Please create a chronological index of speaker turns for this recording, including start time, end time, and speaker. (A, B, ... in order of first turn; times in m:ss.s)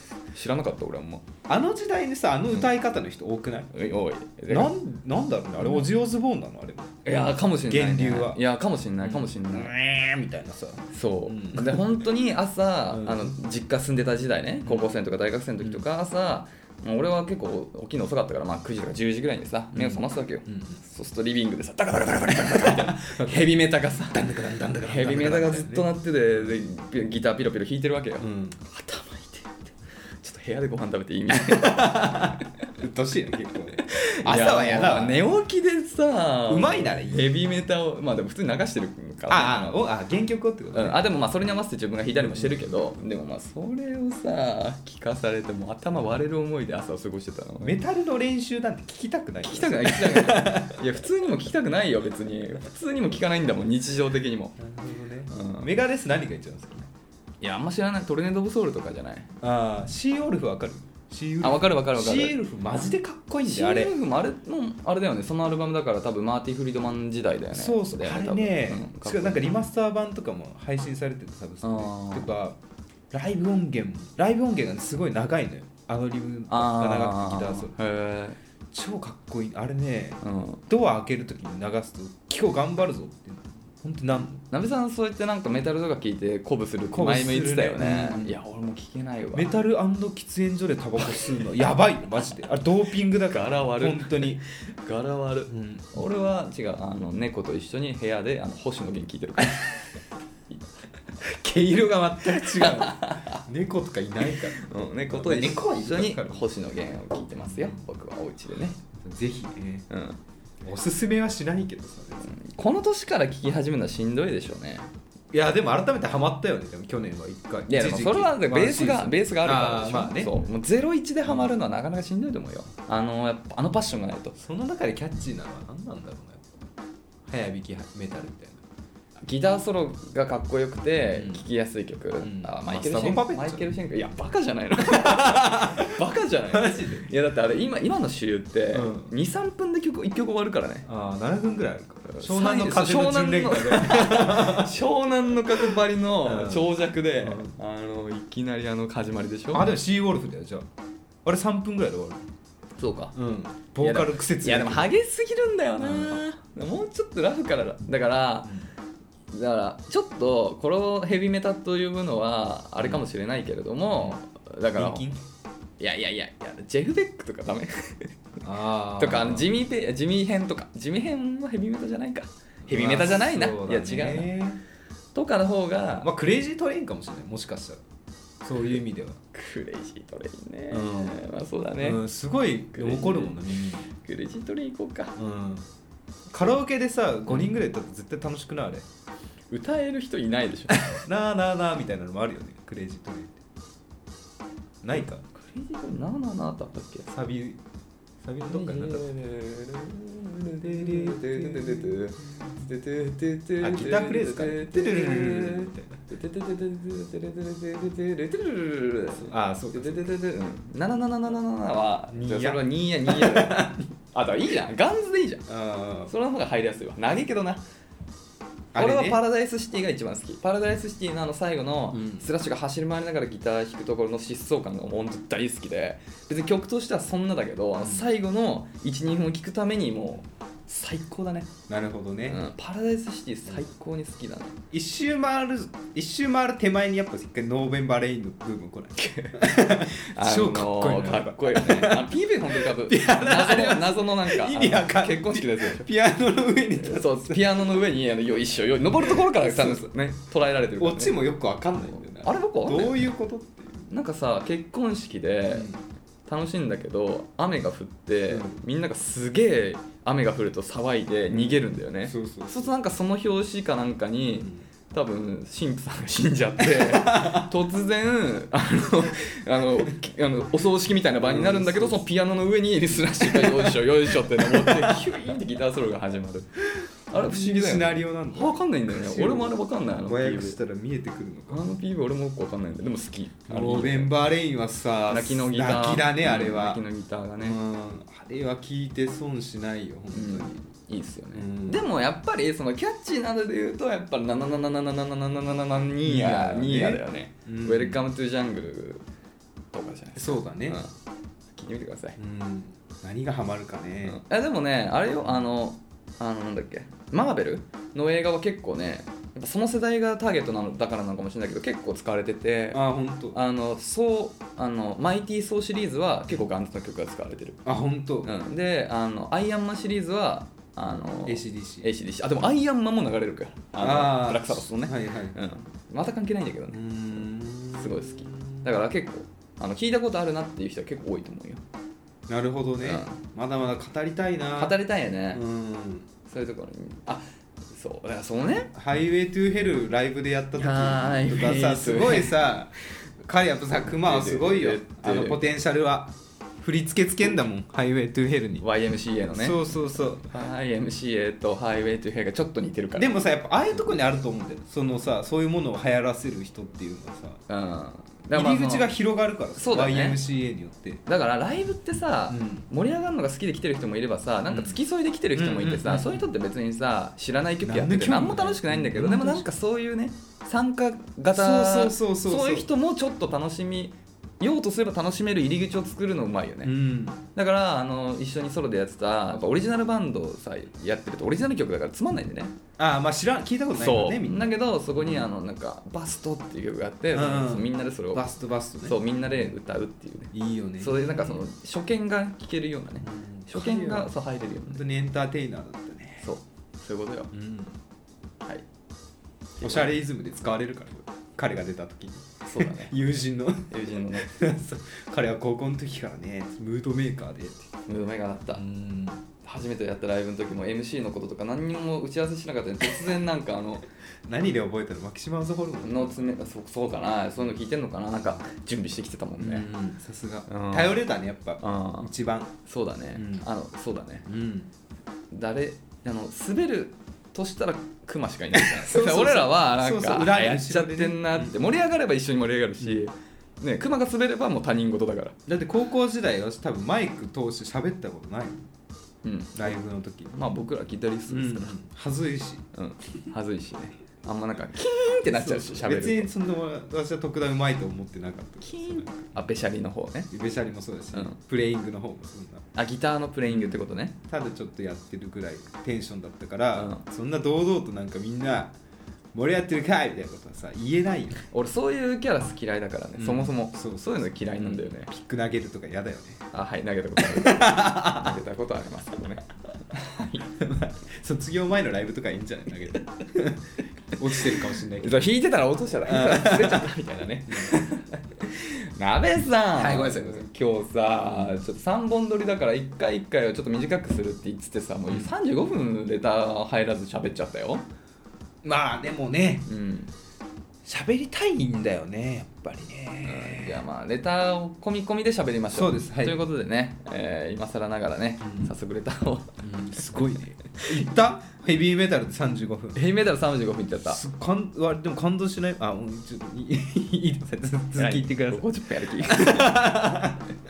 0:00.3-0:01.3 A
0:01.5-0:03.7 B
0:03.7-0:04.7 A
0:04.5-0:07.0 B
0:07.0-0:09.7 A
0:07.7-0:08.4 B
0:09.0-0:11.9 B
0:10.9-0:32.5 A
0:12.9-0:13.4 B
0:14.6-0:14.9 B
0:19.7-0:20.8 B
0:22.4-0:25.9 B
0:28.2-0:28.6 B
0:31.3-0:35.2 B
0:33.8-0:39.8 A
0:36.5-0:37.3 B
0:39.3-0:41.0 B
0:40.7-0:47.8 A
0:42.2-0:42.7 B
0:47.6-0:50.9 B
0:49.4-0:54.6 A
0:54.6-0:56.9 B
0:55.3-0:55.7 A
0:57.4-0:59.3 A
0:59.4-1:03.9 B
1:01.4-1:02.4 A
1:03.4-1:09.5 A
1:07.5-1:12.6 B
1:11.6-1:12.3 A
1:13.1-1:17.8 B
1:16.5-1:18.4 A
1:18.7-1:24.4 B
1:20.2-1:20.6 A
1:24.5-1:29.5 A
1:26.9-1:28.4 B
1:29.3-1:34.4 B
1:33.3-1:40.0 A
1:35.5-1:35.8 B
1:41.2-1:46.5 B
1:42.4-1:43.4 A
1:44.2-1:48.8 A
1:47.5-1:47.8 B
1:48.8-1:49.9 B
1:49.9-1:50.2 A
1:50.6-1:52.4 B
1:52.3-1:54.9 A
1:55.3-2:00.4 B
1:57.7-2:04.4 A
2:04.4-2:06.6 B
2:07.3-2:08.6 B
2:09.2-2:20.9 A
2:11.1-2:11.4 B
2:12.2-2:13.7 B
2:14.8-2:17.1 B
2:18.7-2:19.1 B
2:20.9-2:24.8 B
2:22.1-2:29.7 A
2:25.6-2:27.5 B
2:29.5-2:30.7 B
2:31.2-2:32.2 B
2:32.8-2:33.2 A
2:33.1-2:34.9 B
2:33.8-2:38.5 A
2:35.8-2:36.2 B
2:39.3-2:45.1 A
2:44.8-2:45.2 B
2:45.8-2:48.2 A
2:48.4-2:49.5 B
2:49.0-2:54.3 A
2:52.7-2:54.6 B
2:55.1-2:56.1 A
2:56.0-2:57.8 B
2:58.4-2:59.2 B
2:59.3-3:02.0 A
3:00.7-3:01.2 B
3:01.8-3:03.9 B
3:02.7-3:03.4 A
3:04.0-3:05.2 A
3:05.2-3:05.7 B
3:06.3-3:08.8 B
3:09.5-3:11.0 A
3:10.8-3:13.4 B
3:14.8-3:15.2 B
3:15.0-3:17.1 A
3:17.1-3:17.6 B
3:18.2-3:19.1 B
3:18.4-3:35.5 A
3:20.6-3:22.6 B
3:23.6-3:25.9 B
3:29.2-3:30.2 B
3:32.1-3:33.9 B
3:35.5-3:36.1 B
3:36.1-3:37.6 A
3:38.7-3:39.2 B
3:38.8-3:51.5 A
3:41.9-3:42.3 B
3:47.8-3:48.1 B
3:51.7-3:52.4 B
3:52.3-3:54.6 A
3:54.7-4:07.6 B
3:59.0-4:05.9 A
4:06.8-4:11.2 A
4:09.0-4:09.9 B
4:10.8-4:13.9 B
4:12.2-4:13.1 A
4:13.9-4:15.7 A
4:15.5-4:15.8 B
4:16.3-4:36.5 A
4:18.3-4:18.6 B
4:21.3-4:22.7 B
4:24.4-4:24.7 B
4:26.6-4:27.5 B
4:31.2-4:32.1 B
4:33.0-4:35.2 B
4:36.8-4:41.7 B
4:37.1-4:40.6 A
4:41.5-4:44.2 A
4:43.5-4:46.8 B
4:45.1-4:47.6 A
4:47.4-4:50.6 B
4:50.1-4:59.0 A
4:51.3-4:51.8 B
4:56.0-4:58.0 B
4:59.7-5:00.9 A
5:00.2-5:00.8 B
5:01.5-5:02.2 A
5:02.2-5:04.2 B
5:04.1-5:12.8 A
5:12.7-5:13.4 B
5:13.3-5:17.6 A
5:17.6-5:18.4 B
5:18.2-5:26.8 A
5:21.2-5:21.9 B
5:23.8-5:25.4 B
5:26.7-5:28.7 B
5:27.8-5:31.6 A
5:32.3-5:34.8 B
5:32.8-5:33.2 A
5:34.6-5:35.4 A
5:35.3-5:36.1 B
5:36.3-5:38.7 A
5:38.7-5:48.6 B
5:40.6-5:42.5 A
5:43.8-5:45.6 A
5:48.6-5:53.1 A
5:49.3-5:50.3 B
5:53.0-5:57.4 B
5:57.5-5:58.9 A
5:58.3-6:01.0 B
5:59.6-6:00.2 A
6:01.1-6:16.7 A
6:02.3-6:02.7 B
6:04.5-6:04.8 B
6:05.4-6:06.2 B
6:07.6-6:09.5 B
6:11.3-6:12.7 B
6:16.6-6:17.2 B
6:17.3-6:22.6 A
6:22.8-6:25.3 B
6:23.8-6:28.3 A
6:27.1-6:29.0 B
6:28.8-6:34.8 A
6:30.3-6:31.4 B
6:33.0-6:34.1 B
6:34.7-6:36.3 B
6:36.2-6:37.3 A
6:37.3-6:37.8 B
6:39.6-6:47.7 B
6:39.6-6:39.9 A
6:42.5-6:42.9 A
6:43.7-6:44.3 A
6:47.9-6:48.6 A
6:48.5-6:49.2 B
6:49.4-6:53.8 A
6:54.3-6:56.4 B
6:55.8-6:59.7 A
6:59.4-7:02.6 B
7:00.5-7:01.0 A
7:01.6-7:02.1 A
7:02.7-7:04.2 A
7:03.1-7:03.5 B
7:04.3-7:04.7 B
7:05.3-7:15.4 A
7:08.5-7:11.6 B
7:12.8-7:13.1 B
7:15.5-7:18.6 B
7:19.2-7:19.8 A
7:19.6-7:20.4 B
7:20.3-7:21.8 A
7:21.3-7:22.6 B
7:22.7-7:26.3 A
7:25.3-7:29.4 B
7:28.6-7:30.3 A
7:30.3-7:32.7 B
7:32.8-7:34.2 A
7:33.4-7:38.7 B
7:36.8-7:37.0 A
7:39.3-7:41.4 B
7:41.5-7:45.1 A
7:43.2-7:46.4 B
7:46.5-7:50.5 A
7:47.2-7:48.3 B
7:50.6-7:55.3 B
7:54.4-8:07.9 A
7:56.0-7:56.9 B
7:59.8-8:00.5 B
8:01.2-8:01.6 B
8:08.6-8:09.7 B
8:09.7-8:10.1 A
8:10.9-8:13.8 B
8:13.2-8:19.5 A
8:15.7-8:16.4 B
8:18.4-8:18.7 B
8:19.6-8:23.0 B
8:23.0-8:24.2 A
8:24.0-8:30.5 B
8:28.0-8:29.8 A